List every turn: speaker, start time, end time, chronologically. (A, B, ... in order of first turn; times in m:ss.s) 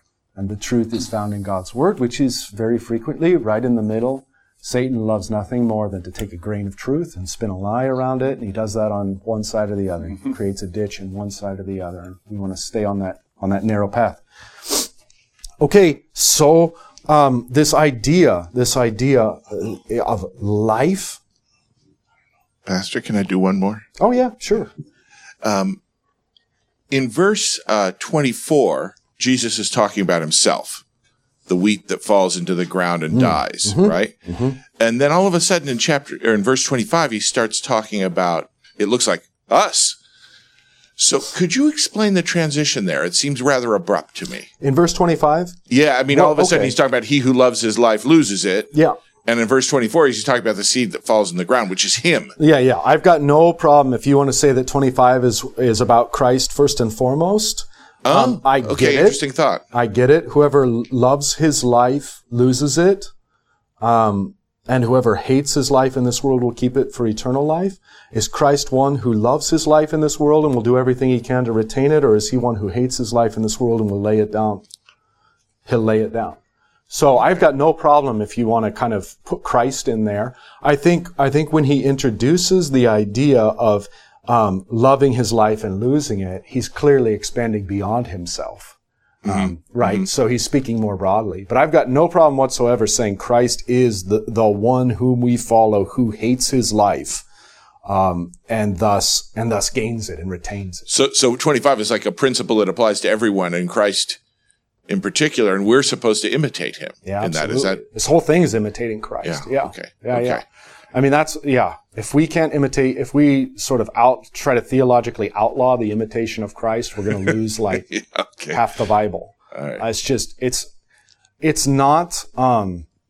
0:00.4-0:14.9 A
0:15.6-0:21.2 A
0:22.6-0:23.8 B
0:24.0-0:24.7 A
0:25.4-0:25.8 B
0:26.9-0:30.8 B
0:31.5-0:34.2 B
0:33.2-0:34.6 A
0:34.7-0:40.0 B
0:41.0-0:44.5 B
0:44.6-0:45.6 A
0:45.7-0:48.7 B
0:46.1-0:46.7 A
0:49.2-0:52.3 B
0:52.4-0:59.2 A
0:58.0-0:59.6 B
0:59.7-1:03.1 A
1:03.8-1:14.6 A
1:15.6-1:16.4 A
1:16.9-1:37.2 A
1:37.8-1:40.9 A
1:40.9-1:44.2 B
1:44.9-1:47.8 B
1:47.0-1:50.4 A
1:49.2-1:50.4 B
1:50.9-1:57.9 A
1:57.9-1:58.6 B
1:58.5-2:00.7 A
1:59.6-1:59.8 B
2:01.4-2:02.9 A